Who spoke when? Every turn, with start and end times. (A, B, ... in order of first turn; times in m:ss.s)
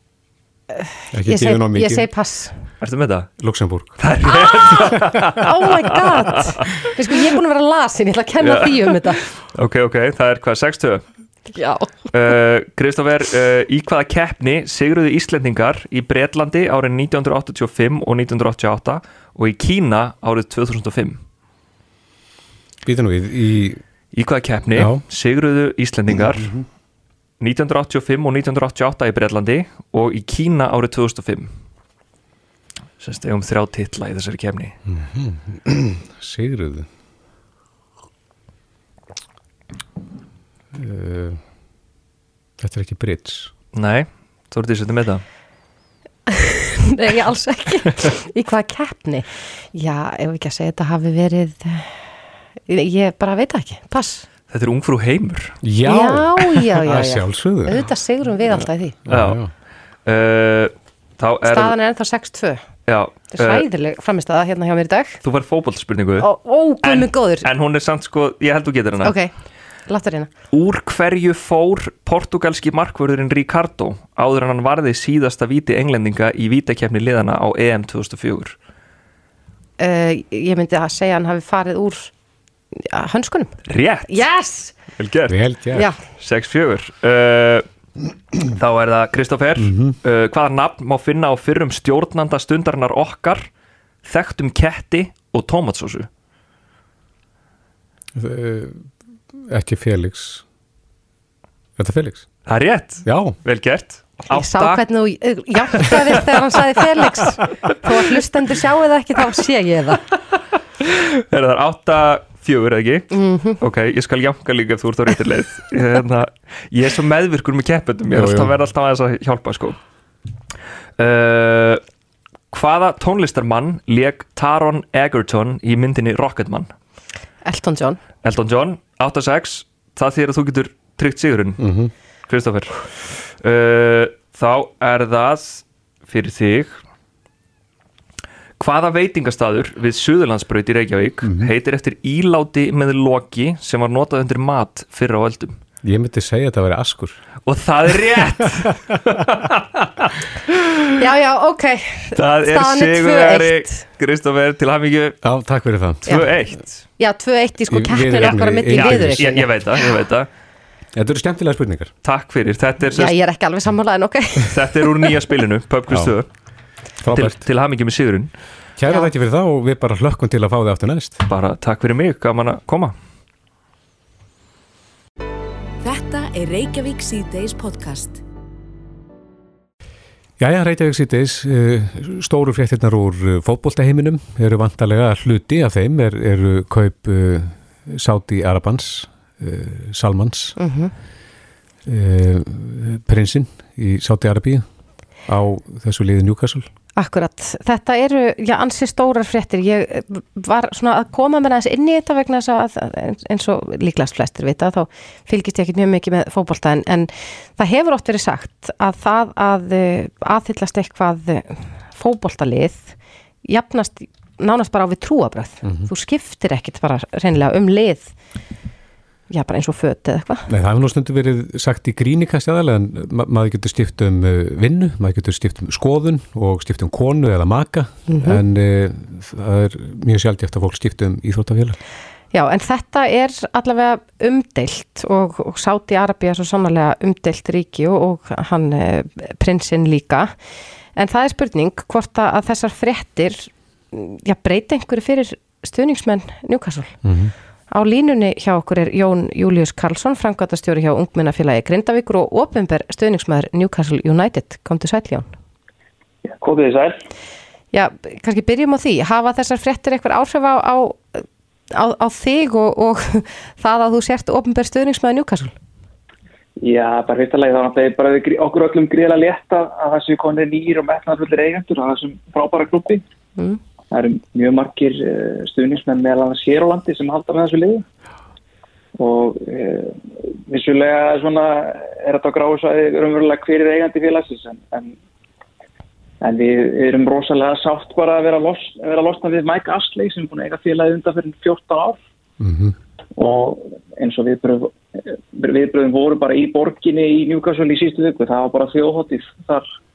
0:00.7-0:02.5 A
0:01.1-0:02.1 B
0:02.8-0:03.3 C
0:03.4-0:05.0 B
0:04.0-0:06.9 C
0:05.4-0:09.2 A
0:08.4-0:11.0 C
0:11.5-0:12.1 A
0:12.1-0:21.2 C
0:22.8-0:23.8 B
0:24.1-0:26.6 C
0:24.7-0:25.0 B
0:26.1-0:26.6 B
0:27.4-0:31.5 C
0:33.0-0:34.8 C
0:34.8-0:36.9 B
0:40.7-0:41.4 B
0:42.6-0:43.5 B
0:43.7-0:45.2 C
0:46.9-0:52.0 A
0:52.7-0:54.3 A
0:54.5-0:55.6 C
0:55.6-0:57.9 B
0:55.8-0:59.0 A
0:59.1-0:59.4 C
0:59.1-0:59.5 B
1:00.0-1:01.7 C
1:01.4-1:02.6 A
1:02.9-1:03.6 C
1:03.3-1:05.2 A
1:05.2-1:06.3 C
1:06.2-1:07.5 A
1:06.8-1:09.2 C
1:09.0-1:09.3 A
1:09.9-1:10.3 A
1:10.5-1:18.6 C
1:19.8-1:22.1 A
1:22.7-1:24.7 A
1:23.7-1:24.3 C
1:25.0-1:25.5 C
1:25.3-1:25.8 B
1:26.0-1:27.7 C
1:28.5-1:33.5 C
1:29.6-1:30.0 B
1:34.0-1:36.1 C
1:38.1-1:38.9 B
1:39.4-1:40.4 B
1:41.8-1:42.3 B
1:42.4-1:44.8 C
1:43.0-1:43.4 B
1:44.3-1:50.0 A
1:45.7-1:46.6 C
1:50.8-1:59.8 C
1:53.1-1:53.6 A
1:58.1-1:58.5 B
2:01.0-2:01.8 C
2:02.5-2:06.7 C
2:07.4-2:08.0 A
2:08.2-2:11.6 C
2:11.6-2:11.9 B
2:12.3-2:16.8 C
2:18.6-2:25.6 C
2:21.2-2:21.5 B
2:25.8-2:27.2 B
2:27.4-2:30.6 C
2:31.0-2:33.8 A
2:32.1-2:35.2 C
2:35.2-2:36.3 B
2:36.0-2:36.8 C
2:37.0-2:40.0 A
2:37.7-2:39.5 B
2:38.2-2:40.3 C
2:40.9-2:41.9 B
2:42.0-2:43.2 C
2:42.9-2:45.1 A
2:44.5-2:46.3 C
2:45.9-2:46.1 B
2:47.0-2:47.4 B
2:47.1-2:48.3 C
2:48.8-2:51.2 B
2:51.2-2:52.9 C
2:55.8-2:58.2 D
3:00.4-3:10.6 B
3:10.6-3:10.9 A
3:11.8-3:14.6 B
3:15.2-3:16.7 B
3:17.0-3:38.1 A
3:35.6-3:35.9 B
3:39.3-3:40.5 A
3:40.5-3:51.8 B
3:48.1-3:48.4 A
3:52.3-4:00.3 A
4:01.0-4:07.0 A
4:07.0-4:07.3 B
4:07.7-4:15.3 A
4:16.2-4:17.0 E
4:17.7-4:25.5 A
4:26.6-4:33.0 E
4:33.9-4:37.8 E
4:39.0-4:45.0 E
4:46.2-4:52.0 E
4:52.4-4:52.7 B
4:53.1-4:59.7 E